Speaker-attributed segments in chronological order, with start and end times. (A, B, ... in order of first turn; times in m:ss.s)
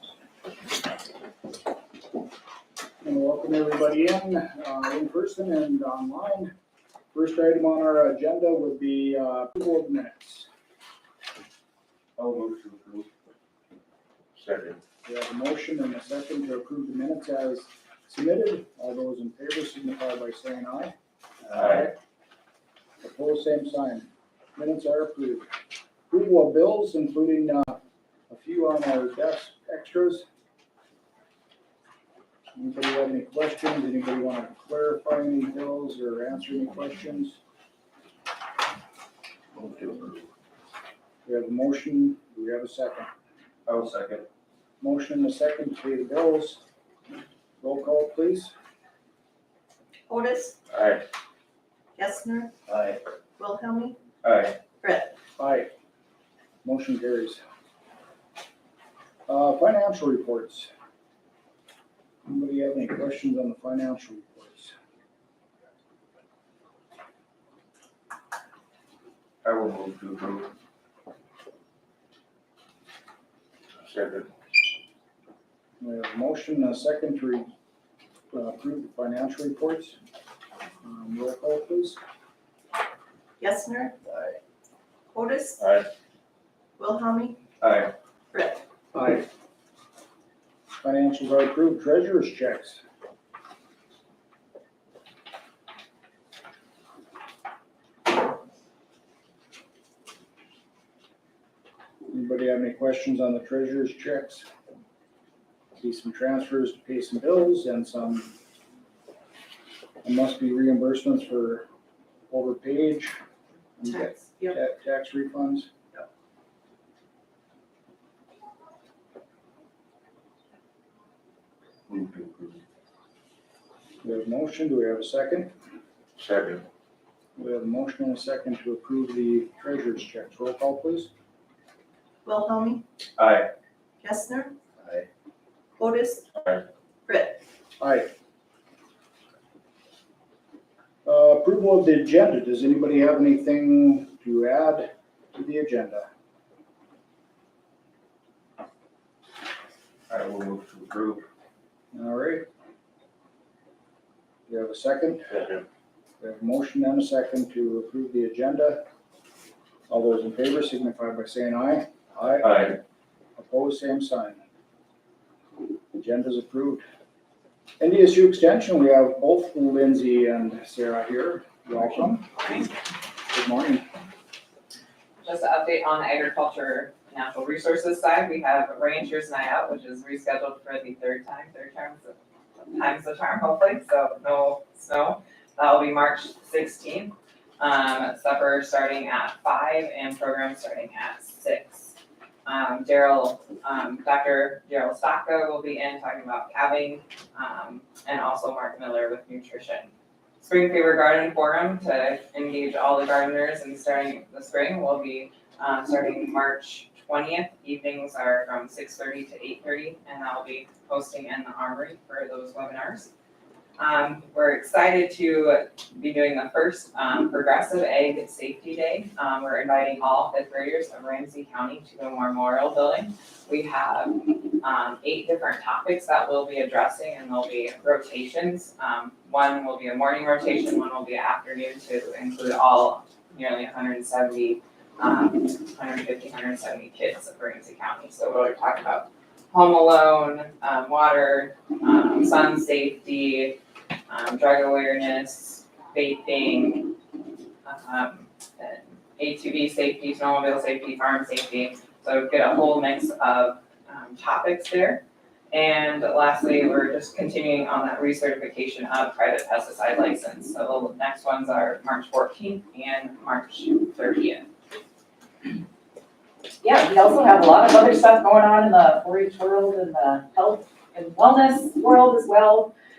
0:03.0-0:06.5 A
0:07.1-0:10.5 A
0:12.2-0:13.1 B
0:14.3-0:14.8 B
0:15.0-0:20.9 A
0:21.5-0:21.9 B
0:23.0-0:25.5 A
0:26.1-0:30.2 A
0:32.5-0:37.4 A
0:39.5-0:40.3 B
0:41.2-0:43.1 A
0:43.7-0:44.2 B
0:44.8-0:46.6 A
0:47.6-0:48.5 A
0:50.1-0:50.6 C
0:50.7-0:51.0 B
0:52.0-0:52.5 C
0:52.7-0:53.0 B
0:53.4-0:54.0 C
0:54.2-0:54.6 B
0:54.8-0:55.1 C
0:55.4-0:55.7 A
0:56.6-0:57.4 A
0:59.3-1:00.7 A
1:02.2-1:04.7 A
1:09.4-1:10.5 B
1:13.8-1:14.3 B
1:15.8-1:17.5 A
1:18.3-1:20.0 A
1:20.8-1:22.0 A
1:23.4-1:23.9 C
1:24.1-1:24.4 B
1:25.1-1:25.6 C
1:25.6-1:25.9 B
1:26.8-1:27.4 C
1:27.6-1:27.9 B
1:28.3-1:28.6 C
1:28.9-1:29.2 A
1:30.8-1:32.8 A
1:42.1-1:44.5 A
1:45.8-1:48.3 A
1:50.0-1:51.7 A
1:52.3-1:53.2 A
1:53.8-1:55.7 A
1:53.9-1:54.5 C
2:01.9-2:02.6 B
2:04.0-2:05.5 A
2:06.2-2:06.6 B
2:07.4-2:11.1 A
2:12.2-2:12.8 C
2:13.2-2:13.5 B
2:14.0-2:14.5 C
2:15.8-2:16.2 C
2:16.3-2:16.6 B
2:17.0-2:17.4 C
2:17.8-2:18.1 A
2:21.0-2:26.1 A
2:30.1-2:31.2 B
2:31.9-2:32.4 A
2:34.5-2:35.3 A
2:35.3-2:35.6 B
2:36.2-2:38.8 A
2:39.9-2:42.6 A
2:42.4-2:42.8 B
2:43.4-2:44.4 A
2:45.9-2:46.8 A
2:47.8-2:52.3 A
2:53.3-2:53.9 A
2:55.2-3:02.1 D
3:02.7-3:33.1 D
3:33.8-4:03.6 D
4:04.1-4:07.0 D
4:07.6-4:24.5 D
4:26.6-4:32.7 E